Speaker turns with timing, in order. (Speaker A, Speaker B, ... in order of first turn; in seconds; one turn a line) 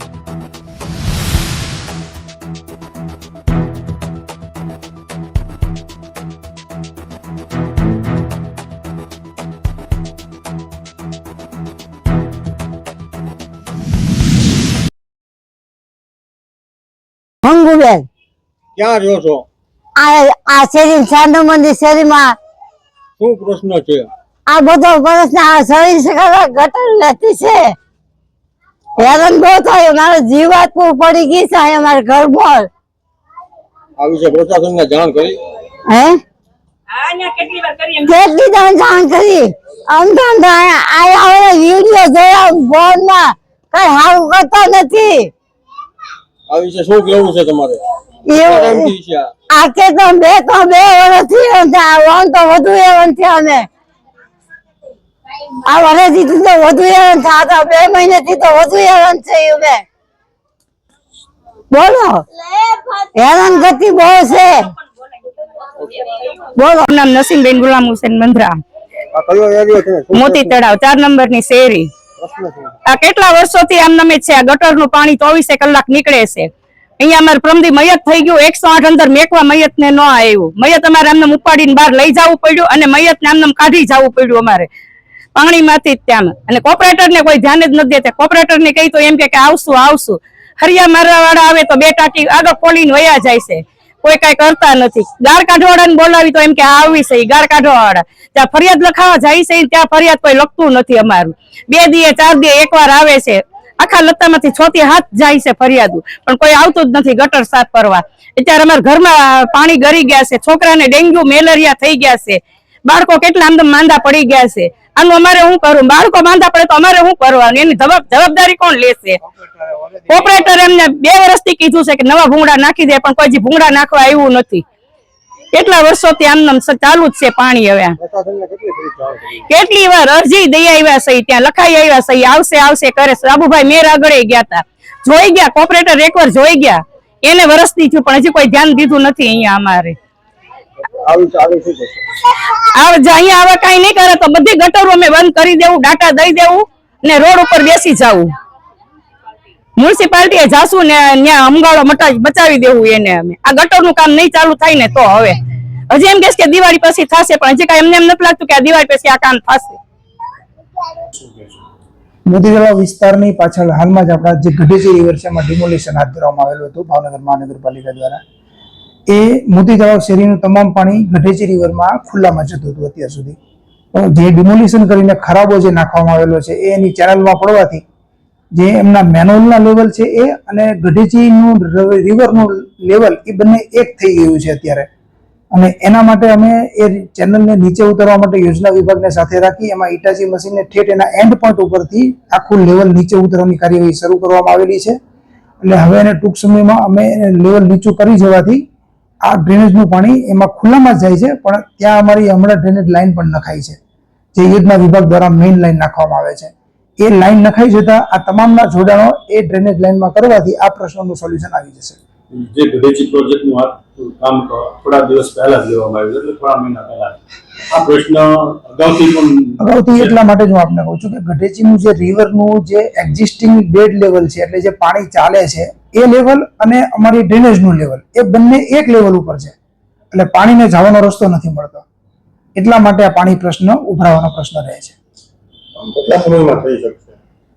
Speaker A: 17.4-18.1
Speaker B: 18.8-19.4
Speaker A: 20.0-22.4
Speaker B: 23.2-24.1
Speaker A: 24.5-27.7
Speaker A: 29.0-32.7
Speaker B: 34.0-35.4
Speaker A: 35.9-36.2
Speaker C: 36.9-38.1
Speaker A: 38.0-45.3
Speaker B: 46.5-47.8
Speaker A: 48.3-48.9
Speaker B: 48.4-49.3
Speaker A: 49.5-53.7
Speaker A: 55.6-59.8
Speaker A: 61.7-62.2
Speaker A: 63.1-64.7
Speaker C: 66.1-68.5
Speaker B: 69.1-70.6
Speaker C: 70.1-71.9
Speaker B: 72.2-72.7
Speaker C: 72.9-76.5
Speaker C: 77.0-84.7
Speaker C: 85.3-119.2
Speaker C: 120.1-124.6
Speaker C: 125.5-128.0
Speaker B: 128.0-129.4
Speaker C: 129.5-139.9
Speaker B: 141.0-142.0
Speaker C: 142.5-148.3
Speaker C: 149.8-155.4
Speaker C: 155.9-159.8
Speaker D: 161.2-161.6
Speaker E: 162.3-168.2
Speaker E: 169.1-173.3
Speaker E: 173.9-177.8
Speaker E: 178.6-184.9
Speaker E: 185.5-195.0
Speaker E: 195.6-198.6
Speaker E: 199.2-203.8
Speaker E: 204.3-212.0
Speaker D: 212.3-217.2
Speaker D: 217.7-220.2
Speaker E: 219.6-229.5
Speaker E: 230.1-231.8
Speaker E: 232.6-234.9
Speaker B: 235.8-237.0